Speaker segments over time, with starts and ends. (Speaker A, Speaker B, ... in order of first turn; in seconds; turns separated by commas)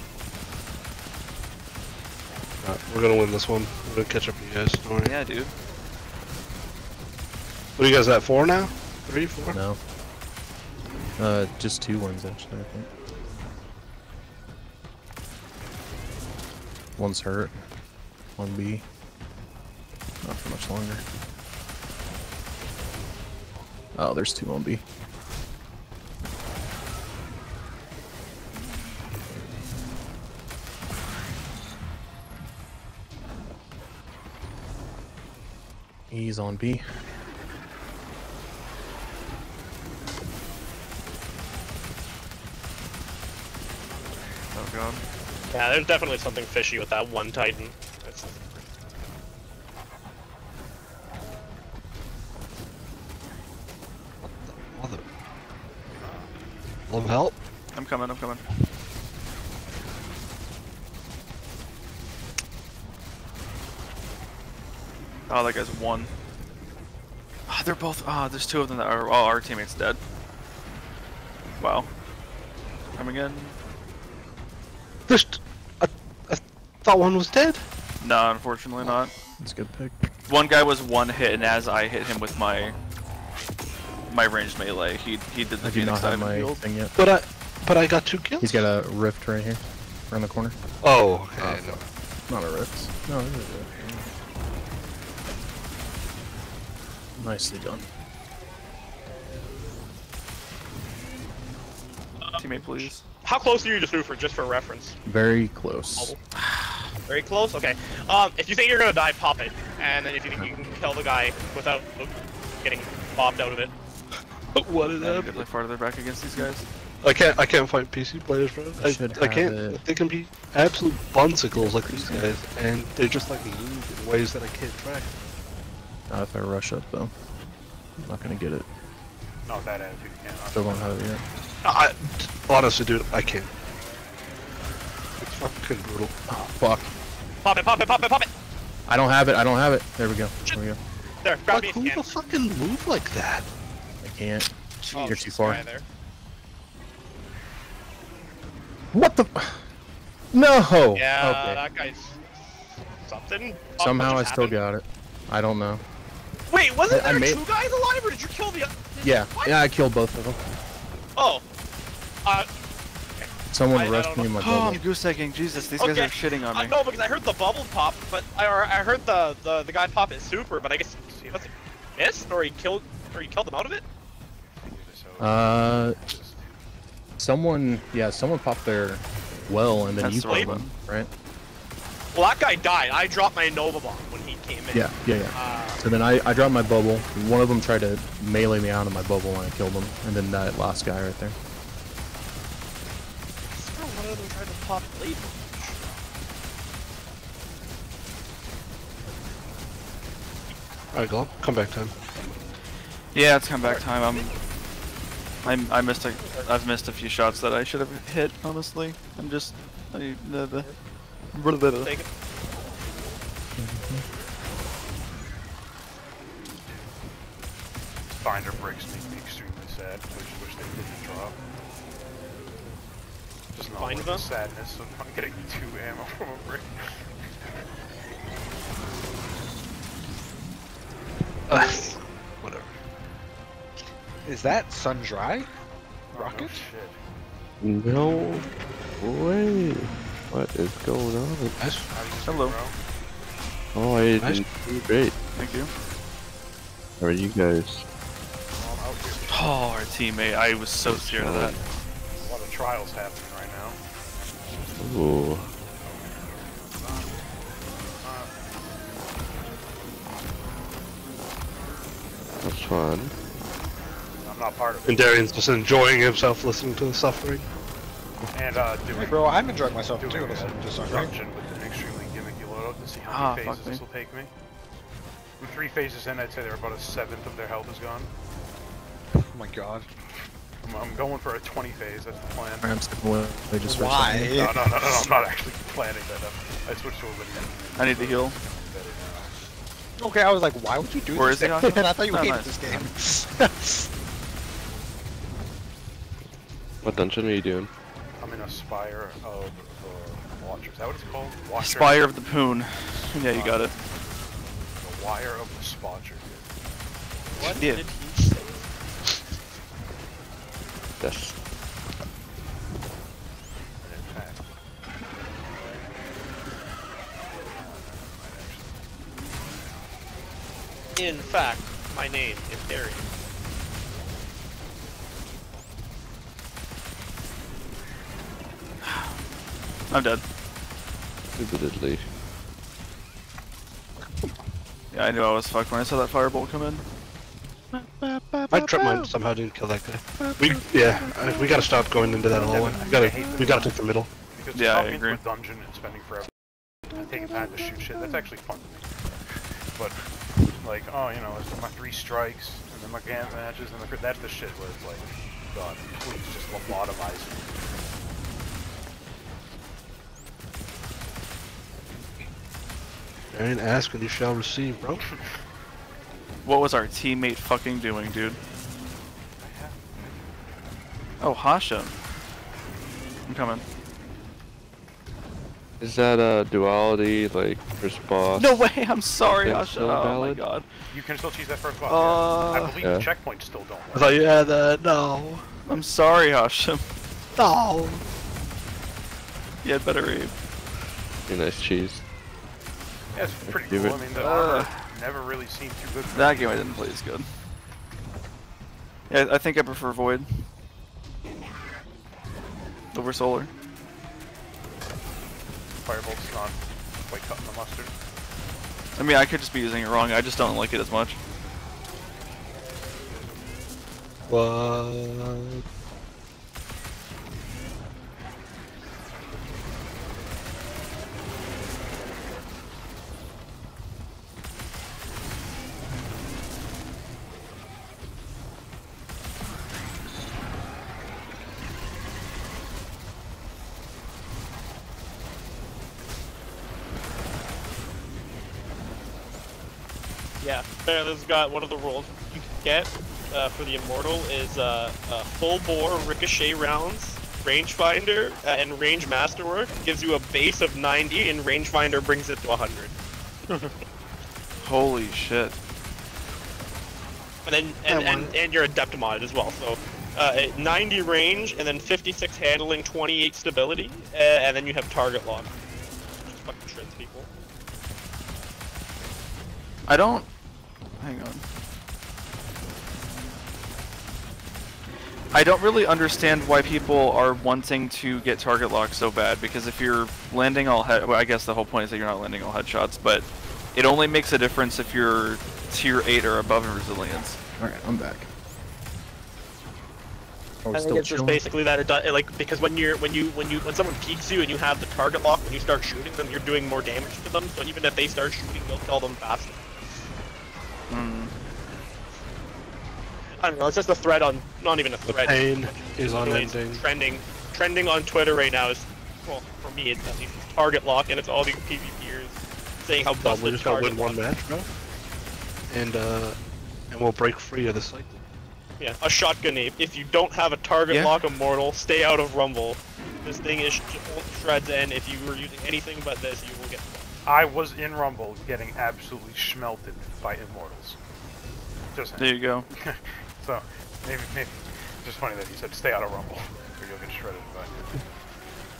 Speaker A: 2.6-5.1, Speaker B: 5.0-5.5, Speaker A: 7.8-9.6, Speaker C: 9.5-9.8, Speaker C: 11.2-12.9, Speaker C: 17.0-17.6, Speaker C: 18.4-18.8, Speaker C: 20.2-21.0, Speaker C: 23.9-24.8, Speaker C: 36.1-36.8, Speaker B: 44.5-45.0, Speaker D: 45.5-48.6, Speaker A: 54.2-55.0, Speaker E: 56.0-56.3, Speaker A: 56.9-57.4, Speaker B: 57.7-58.6, Speaker B: 65.3-66.1, Speaker B: 67.5-70.0, Speaker B: 71.6-71.9, Speaker B: 73.0-73.5, Speaker A: 75.1-77.7, Speaker B: 78.0-79.1, Speaker C: 79.4-80.1, Speaker B: 80.3-82.8, Speaker B: 84.1-86.6, Speaker C: 85.6-86.9, Speaker A: 86.9-88.7, Speaker C: 88.4-90.6, Speaker A: 90.8-91.8, Speaker C: 91.4-94.1, Speaker C: 97.2-97.8, Speaker D: 102.2-105.0, Speaker B: 102.3-103.0, Speaker C: 105.0-106.1, Speaker B: 106.3-106.9, Speaker D: 107.1-113.7, Speaker A: 114.5-115.5, Speaker B: 115.0-116.7, Speaker A: 117.0-125.1, Speaker C: 118.8-119.8, Speaker C: 121.6-122.2, Speaker C: 126.1-127.1, Speaker C: 128.0-128.7, Speaker E: 129.4-130.9, Speaker C: 130.5-131.2, Speaker A: 131.6-133.5, Speaker A: 135.2-136.2, Speaker C: 136.3-136.9, Speaker D: 137.4-138.3, Speaker C: 138.9-140.8, Speaker D: 141.2-142.1, Speaker A: 141.5-143.5, Speaker C: 144.0-145.6, Speaker B: 144.8-145.6, Speaker D: 144.9-145.8, Speaker C: 148.9-149.7, Speaker C: 150.3-151.6, Speaker D: 150.9-152.2, Speaker D: 153.0-154.5, Speaker C: 153.8-155.8, Speaker D: 156.5-159.6, Speaker C: 156.9-157.4, Speaker C: 159.0-160.4, Speaker D: 161.2-161.4, Speaker D: 163.2-164.4, Speaker C: 163.5-164.8, Speaker B: 164.4-166.7, Speaker D: 165.8-173.8, Speaker E: 171.1-171.5, Speaker E: 174.6-176.4, Speaker C: 175.2-176.0, Speaker C: 177.2-181.1, Speaker B: 180.0-180.7, Speaker D: 180.3-180.5, Speaker D: 182.1-185.8, Speaker C: 184.7-191.3, Speaker D: 193.5-195.8, Speaker A: 200.9-201.9, Speaker B: 203.1-204.3, Speaker B: 205.4-210.7, Speaker B: 211.3-211.9, Speaker D: 211.8-212.1, Speaker C: 213.6-214.0, Speaker E: 218.1-221.3, Speaker E: 223.5-227.0, Speaker D: 223.7-224.3, Speaker A: 231.5-232.7, Speaker F: 234.2-235.5, Speaker E: 236.1-237.0, Speaker F: 236.1-236.6, Speaker G: 237.6-238.5, Speaker G: 239.0-241.7, Speaker A: 241.6-241.8, Speaker E: 241.9-242.8, Speaker B: 242.2-242.6, Speaker G: 243.7-245.2, Speaker A: 244.2-244.4, Speaker B: 245.3-245.7, Speaker G: 247.0-247.8, Speaker E: 248.5-249.6, Speaker B: 249.3-251.6, Speaker G: 250.8-251.6, Speaker E: 252.2-253.8, Speaker G: 254.8-255.5, Speaker E: 255.8-257.2, Speaker E: 258.0-258.3, Speaker G: 262.4-263.1, Speaker E: 264.2-265.2, Speaker A: 264.9-267.4, Speaker E: 268.3-274.3, Speaker F: 268.9-271.1, Speaker B: 273.1-273.8, Speaker E: 275.4-278.1, Speaker F: 279.2-279.9, Speaker E: 280.6-282.7, Speaker C: 282.6-284.4, Speaker F: 283.6-285.2, Speaker E: 284.3-289.4, Speaker B: 287.8-288.4, Speaker F: 290.0-293.9, Speaker B: 291.1-292.9, Speaker G: 296.8-297.7, Speaker E: 298.2-302.1, Speaker B: 301.6-303.7, Speaker E: 303.3-303.7, Speaker E: 304.8-306.5, Speaker D: 307.3-308.7, Speaker B: 307.6-307.8, Speaker G: 311.0-311.4, Speaker E: 313.8-314.4, Speaker E: 317.4-318.8, Speaker D: 320.9-323.1, Speaker B: 328.8-329.1, Speaker B: 329.9-330.2, Speaker G: 331.3-332.1, Speaker B: 334.9-336.8, Speaker F: 337.8-339.1, Speaker A: 338.5-344.1, Speaker E: 342.3-343.7, Speaker E: 344.3-346.3, Speaker B: 344.5-345.2, Speaker E: 346.9-357.4, Speaker A: 363.3-365.0, Speaker B: 366.4-368.4, Speaker E: 369.4-370.1, Speaker B: 371.2-371.9, Speaker B: 373.2-373.6, Speaker G: 375.8-378.5, Speaker B: 378.4-380.7, Speaker G: 379.2-380.4, Speaker E: 380.9-384.2, Speaker B: 381.9-382.8, Speaker G: 382.8-383.1, Speaker A: 383.9-385.4, Speaker B: 385.6-386.8, Speaker A: 387.3-388.1, Speaker B: 389.6-390.3, Speaker G: 391.3-392.0, Speaker E: 393.1-396.9, Speaker G: 393.4-394.2, Speaker B: 394.1-394.9, Speaker B: 396.1-397.3, Speaker B: 399.1-400.5, Speaker B: 402.9-403.5, Speaker E: 405.8-407.9, Speaker B: 408.9-411.2, Speaker A: 414.3-415.6, Speaker D: 440.4-452.9, Speaker B: 454.6-455.6, Speaker D: 457.4-465.5, Speaker A: 457.9-458.3, Speaker D: 466.3-467.3, Speaker B: 469.9-470.2, Speaker B: 471.0-471.4, Speaker B: 475.3-487.4, Speaker C: 487.6-488.3, Speaker C: 490.6-491.4, Speaker D: 490.7-499.6, Speaker B: 500.9-501.3, Speaker D: 503.4-514.2, Speaker A: 505.0-506.8, Speaker A: 513.2-514.7, Speaker A: 515.7-516.4, Speaker A: 516.9-518.2, Speaker D: 518.8-527.0, Speaker B: 520.9-521.2, Speaker E: 527.2-531.0, Speaker E: 531.9-537.9, Speaker B: 532.2-532.7